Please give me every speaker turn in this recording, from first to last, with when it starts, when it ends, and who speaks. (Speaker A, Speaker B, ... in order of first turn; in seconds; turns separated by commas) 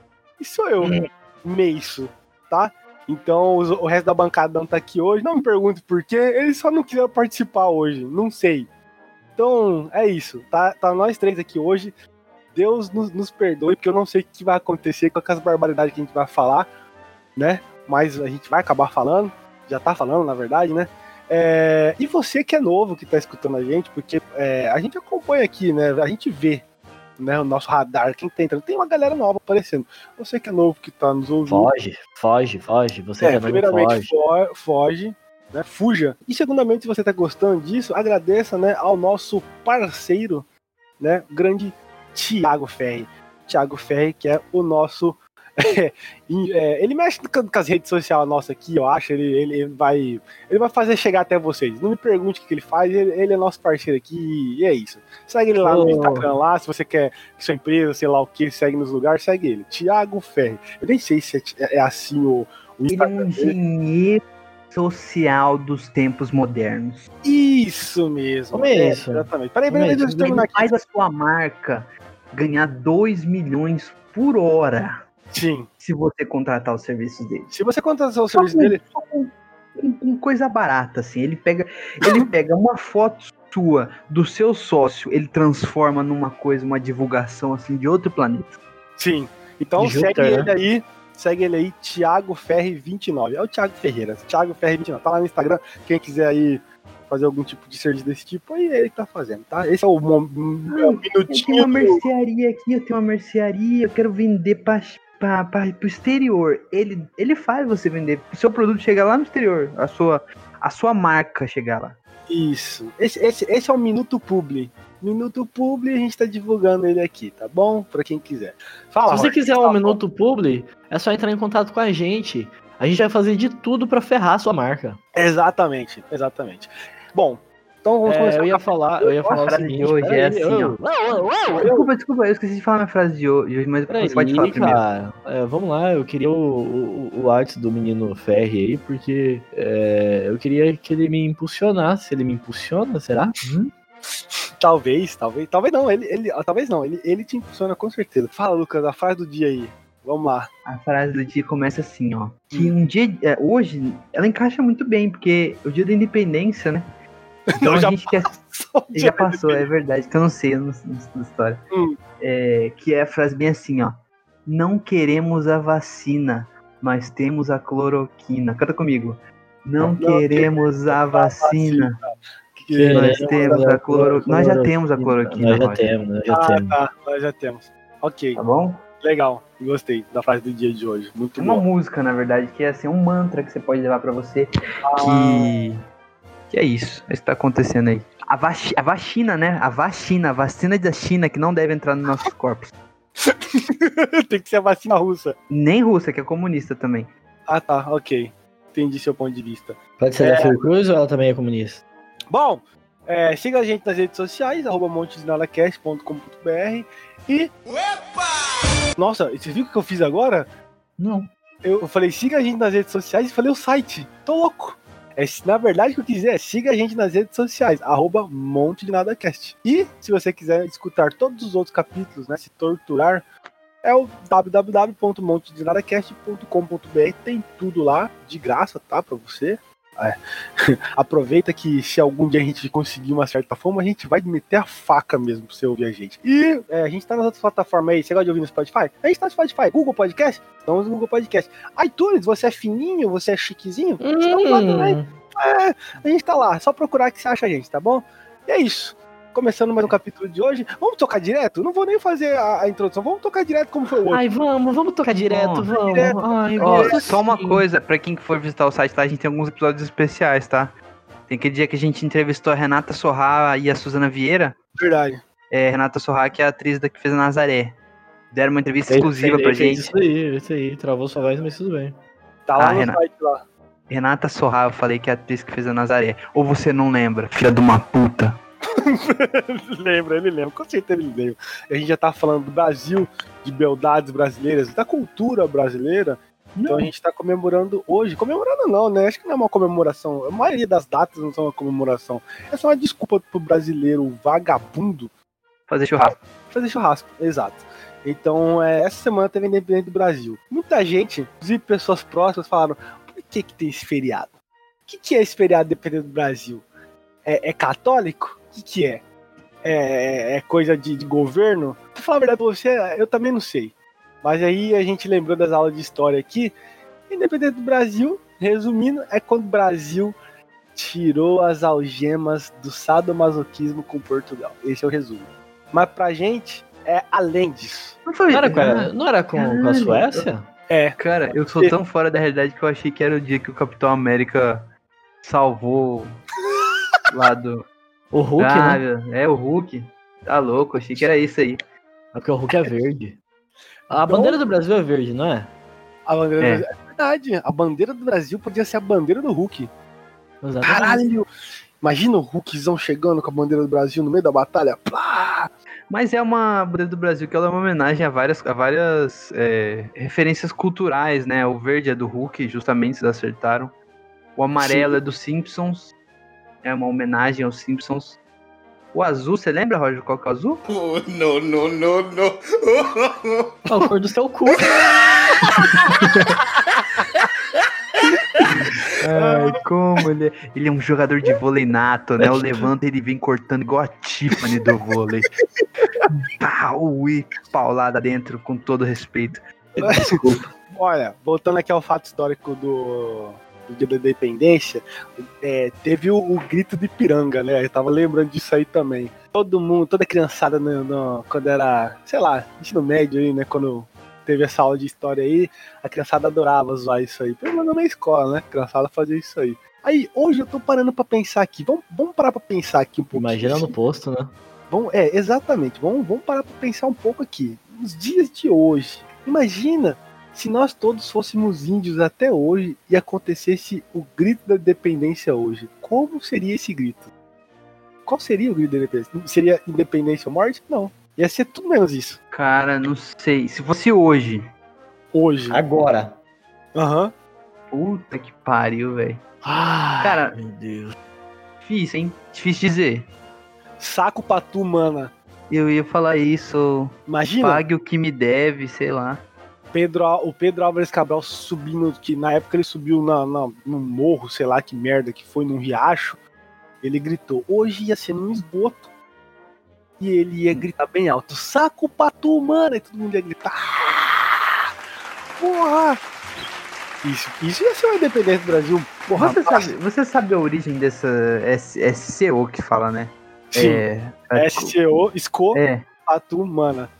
Speaker A: 0.4-8.7, Speaker A: 9.4-11.9, Speaker A: 12.6-16.7, Speaker A: 17.4-26.6, Speaker A: 27.2-31.7, Speaker B: 31.5-34.1, Speaker A: 33.2-40.5, Speaker A: 41.0-63.6, Speaker B: 55.6-56.3, Speaker C: 62.9-67.1, Speaker A: 67.2-70.8, Speaker B: 68.5-70.4, Speaker C: 70.2-75.0, Speaker A: 75.3-75.7, Speaker C: 75.8-77.5, Speaker A: 77.5-78.8, Speaker C: 78.3-88.6, Speaker A: 89.0-102.0, Speaker B: 89.8-90.5, Speaker C: 100.7-112.0, Speaker A: 112.3-120.0, Speaker B: 119.1-125.0, Speaker A: 125.2-128.7, Speaker B: 128.1-131.9, Speaker C: 129.2-130.8, Speaker C: 131.6-134.8, Speaker B: 133.9-143.4, Speaker A: 144.6-150.5, Speaker C: 150.7-156.9, Speaker A: 157.5-159.7, Speaker C: 157.6-158.3, Speaker C: 158.9-161.6, Speaker A: 161.7-162.0, Speaker C: 162.2-172.0, Speaker A: 170.0-172.0, Speaker A: 172.6-173.7, Speaker B: 172.7-176.8, Speaker C: 172.9-175.9, Speaker A: 176.3-178.4, Speaker C: 178.3-178.8, Speaker A: 179.0-181.7, Speaker C: 181.4-185.8, Speaker A: 184.8-185.5, Speaker C: 186.5-192.7, Speaker A: 193.2-195.4, Speaker C: 195.5-197.1, Speaker A: 197.5-200.6, Speaker B: 200.0-201.8, Speaker A: 202.3-207.5, Speaker A: 209.0-210.5, Speaker C: 211.0-211.3, Speaker A: 211.6-223.2, Speaker A: 223.8-254.2, Speaker B: 244.0-245.1, Speaker B: 254.1-257.6, Speaker C: 255.3-255.7, Speaker A: 255.8-257.1, Speaker C: 256.6-260.8, Speaker C: 261.3-264.6, Speaker A: 264.8-265.2, Speaker C: 265.5-267.8, Speaker C: 268.3-269.9, Speaker B: 268.9-272.0, Speaker A: 272.5-273.4, Speaker C: 272.6-273.0, Speaker C: 273.9-278.4, Speaker A: 278.8-295.1, Speaker C: 286.6-286.9, Speaker C: 295.7-296.2, Speaker A: 296.0-304.3, Speaker A: 304.9-306.7, Speaker A: 307.2-309.0, Speaker A: 309.6-316.6, Speaker A: 317.1-320.2, Speaker A: 320.7-328.0, Speaker C: 328.1-330.3, Speaker B: 328.3-330.5, Speaker A: 330.7-331.7, Speaker C: 331.0-334.7, Speaker C: 335.2-336.2, Speaker C: 337.1-337.7, Speaker B: 338.1-338.8, Speaker C: 338.4-341.6, Speaker B: 342.1-343.2, Speaker B: 343.9-345.5, Speaker A: 344.1-344.4, Speaker A: 346.1-349.7, Speaker C: 346.4-346.7, Speaker B: 350.4-351.1, Speaker A: 350.6-351.3, Speaker A: 351.8-355.5, Speaker C: 355.9-363.8, Speaker C: 364.4-365.9, Speaker A: 364.6-365.0, Speaker C: 366.6-368.2, Speaker C: 368.9-370.6, Speaker D: 370.7-373.0, Speaker B: 373.7-374.8, Speaker C: 375.5-376.3, Speaker C: 378.5-385.4, Speaker A: 379.1-379.6, Speaker A: 382.2-382.7, Speaker A: 385.8-386.1, Speaker C: 386.1-390.5, Speaker A: 389.8-390.2, Speaker A: 390.7-413.7, Speaker B: 413.1-414.3, Speaker A: 414.7-427.1, Speaker A: 428.1-432.2, Speaker C: 432.3-434.5, Speaker A: 435.1-435.6, Speaker B: 435.5-436.2, Speaker A: 436.8-437.1, Speaker C: 437.7-439.2, Speaker B: 439.4-441.0, Speaker C: 440.0-440.4, Speaker C: 441.6-443.1, Speaker A: 443.8-445.1, Speaker C: 445.5-449.2, Speaker A: 447.1-447.6, Speaker A: 449.7-456.2, Speaker A: 456.8-458.9, Speaker A: 460.0-464.7, Speaker A: 465.4-466.0, Speaker A: 467.0-469.7, Speaker C: 469.2-474.8, Speaker A: 473.5-473.8, Speaker A: 474.4-476.9, Speaker C: 475.5-475.9